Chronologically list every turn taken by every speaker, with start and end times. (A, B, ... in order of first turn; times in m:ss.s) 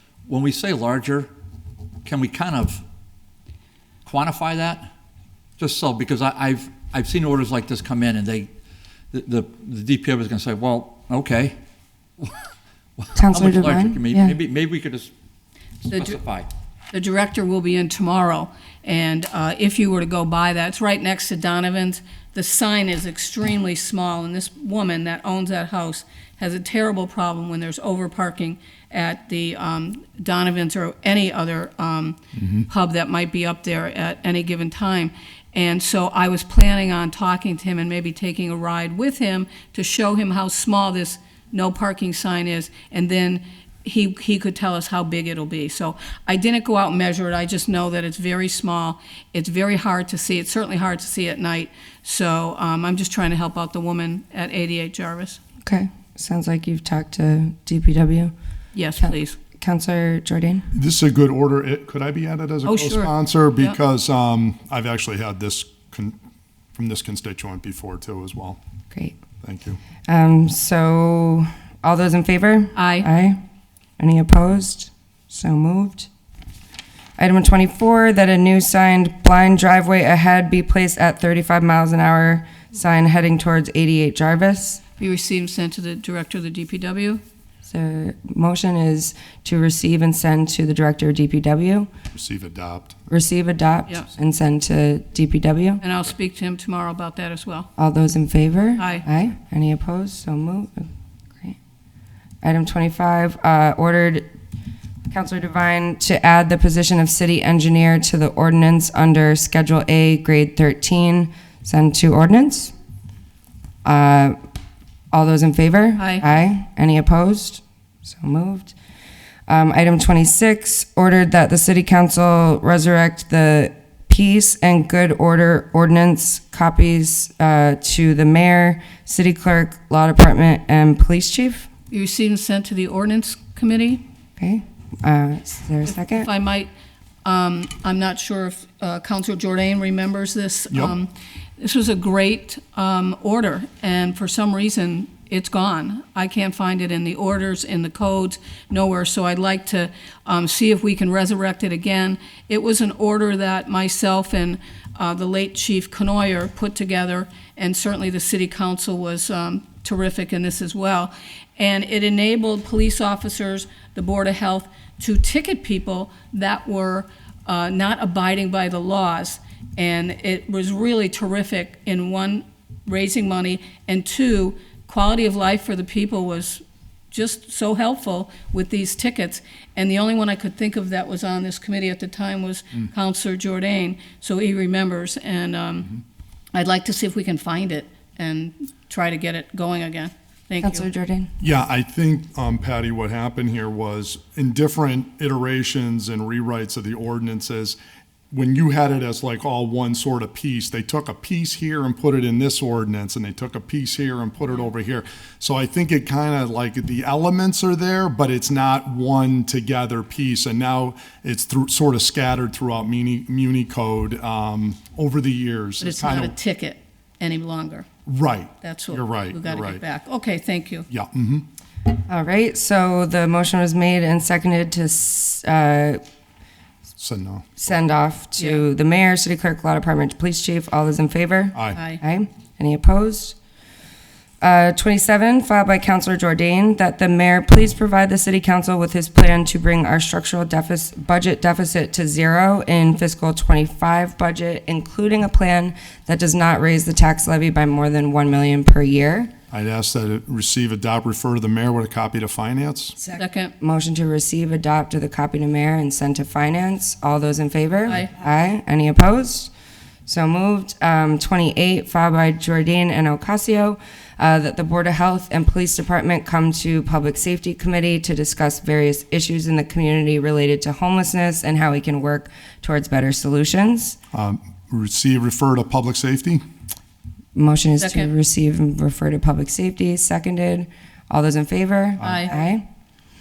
0:00.3-0:01.3 A
0:02.0-0:02.8 A
0:04.0-0:04.9 A
0:05.6-0:08.5 A
0:09.1-0:11.6 A
0:13.0-0:15.1 A
0:13.1-0:14.3 B
0:15.8-0:16.5 A
0:16.9-0:32.2 C
0:32.4-0:32.6 D
0:32.7-0:55.4 C
0:55.6-0:58.3 B
0:58.7-0:59.4 C
0:59.0-1:00.7 B
1:00.7-1:06.2 D
1:02.6-1:03.8 C
1:06.7-1:08.6 D
1:08.9-1:09.2 B
1:09.4-1:09.8 D
1:10.1-1:13.4 B
1:12.8-1:13.1 C
1:14.0-1:16.1 B
1:17.2-1:24.8 B
1:25.0-1:27.2 C
1:27.6-1:31.9 B
1:32.1-1:33.0 D
1:33.1-1:35.8 B
1:35.8-1:37.7 C
1:37.8-1:41.6 B
1:38.8-1:39.0 C
1:42.4-1:44.3 B
1:45.1-1:52.7 B
1:53.8-1:54.4 B
1:55.1-1:58.7 B
1:56.0-1:56.2 C
1:59.5-2:11.7 B
2:11.9-2:14.0 C
2:14.4-2:16.3 B
2:16.0-2:16.7 C
2:17.2-3:05.9 C
3:06.5-3:10.9 C
3:10.6-3:11.3 B
3:11.4-3:17.8 D
3:18.3-3:36.4 D
3:35.8-3:37.8 C
3:38.0-3:39.8 D
3:38.6-3:40.8 C
3:40.9-3:41.4 D
3:42.1-3:46.0 B
3:47.0-3:47.6 D
3:47.6-3:53.4 B
3:48.4-3:48.6 C
3:51.5-3:51.8 D
3:51.7-3:52.0 C
3:54.4-4:09.3 B
4:09.5-4:13.0 D
4:13.1-4:13.5 C
4:13.6-4:19.5 B
4:20.0-4:34.0 B
4:34.1-4:36.4 D
4:37.3-4:42.6 B
4:37.8-4:38.1 C
4:42.0-4:42.3 C